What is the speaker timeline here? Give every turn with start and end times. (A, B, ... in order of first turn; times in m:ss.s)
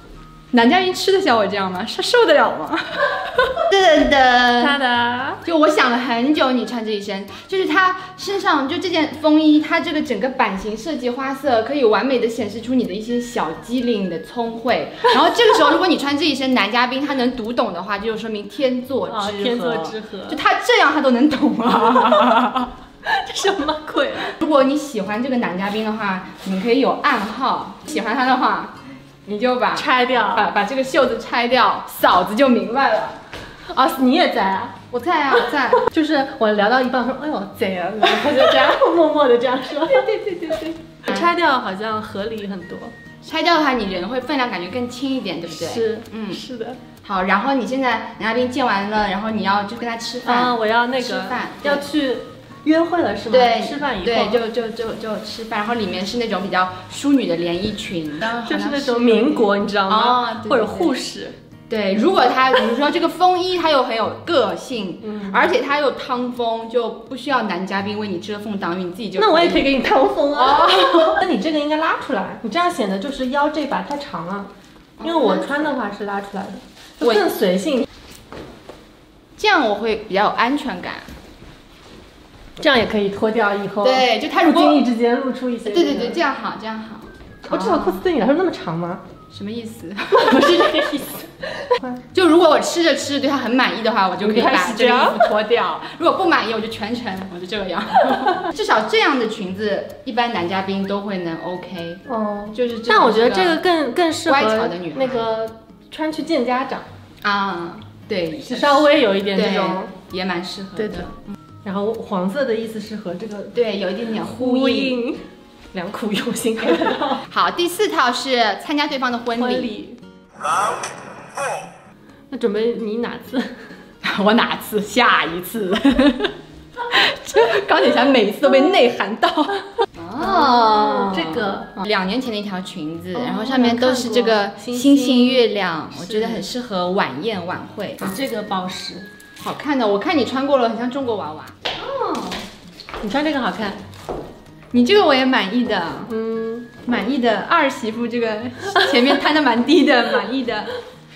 0:00.5-0:04.8 A
0:04.6-0:05.4 B
0:05.4-0:22.7 A
0:19.1-0:20.4 B
0:21.9-0:22.4 B
0:23.0-0:24.4 B
0:24.3-0:33.2 A
0:29.7-0:30.5 B
0:33.7-0:34.8 B
0:34.9-0:35.8 A
0:35.7-0:42.9 B
0:38.2-0:38.8 A
0:43.2-0:46.4 A
0:45.5-0:46.8 B
0:47.0-0:51.8 A
0:50.2-0:54.4 B
0:53.3-1:01.0 A
0:58.3-1:01.4 B
1:01.7-1:09.7 A
1:05.0-1:05.5 B
1:09.2-1:14.5 B
1:10.3-1:11.2 A
1:15.0-1:15.7 A
1:15.0-1:17.9 B
1:17.0-1:17.3 A
1:19.4-1:21.0 A
1:22.6-1:26.2 B
1:23.8-1:24.8 A
1:25.6-1:28.0 A
1:27.5-1:29.0 B
1:29.3-1:31.0 A
1:30.1-1:32.0 B
1:32.1-1:42.0 A
1:34.2-1:35.4 B
1:42.1-1:46.9 B
1:42.5-1:43.6 A
1:44.3-1:45.3 A
1:47.2-1:51.2 A
1:48.5-1:49.9 B
1:50.8-1:51.1 B
1:51.6-1:53.6 B
1:53.5-1:55.0 A
1:54.2-1:55.2 B
1:55.7-1:57.2 B
1:57.3-1:59.7 A
1:59.4-2:00.0 B
2:02.3-2:03.7 B
2:04.0-2:06.4 A
2:06.9-2:18.2 A
2:10.2-2:11.7 B
2:13.1-2:16.5 B
2:18.0-2:19.1 B
2:19.4-2:22.5 A
2:23.0-2:23.8 B
2:24.7-2:26.1 A
2:26.1-2:26.7 B
2:26.8-2:30.7 A